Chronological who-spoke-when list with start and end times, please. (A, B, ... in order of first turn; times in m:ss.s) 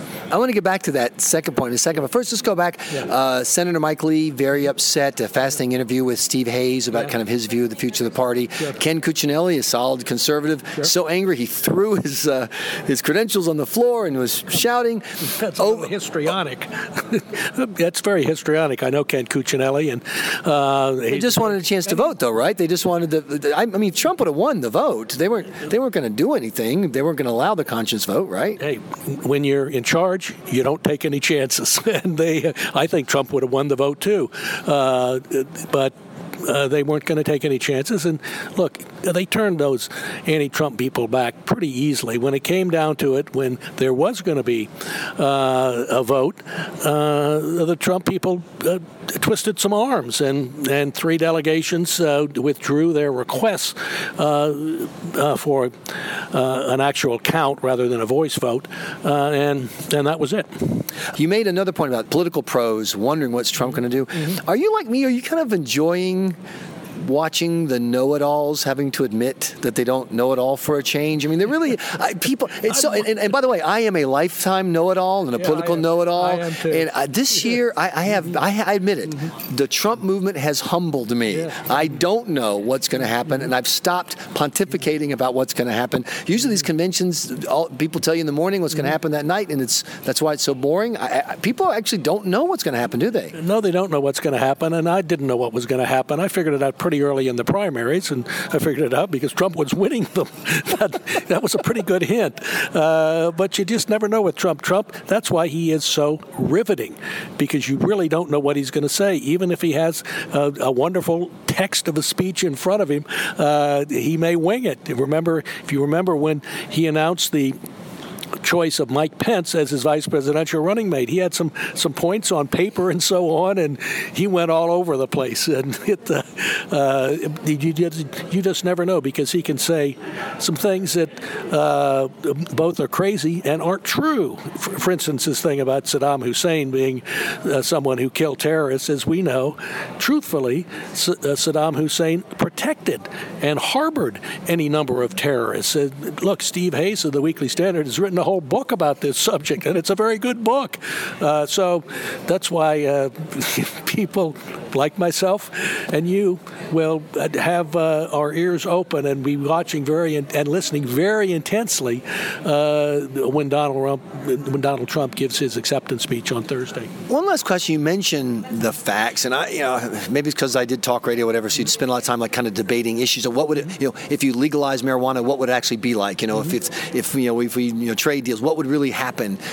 0:00.3-0:15.0 A
0:15.2-0:22.1 B
0:15.6-0:15.9 A
0:21.1-0:28.6 A
0:28.6-1:00.8 B
1:01.2-1:06.4 A
1:07.0-1:33.4 A
1:15.4-1:16.9 B
1:33.3-1:57.6 B
1:58.4-2:46.9 B
2:47.1-2:59.4 A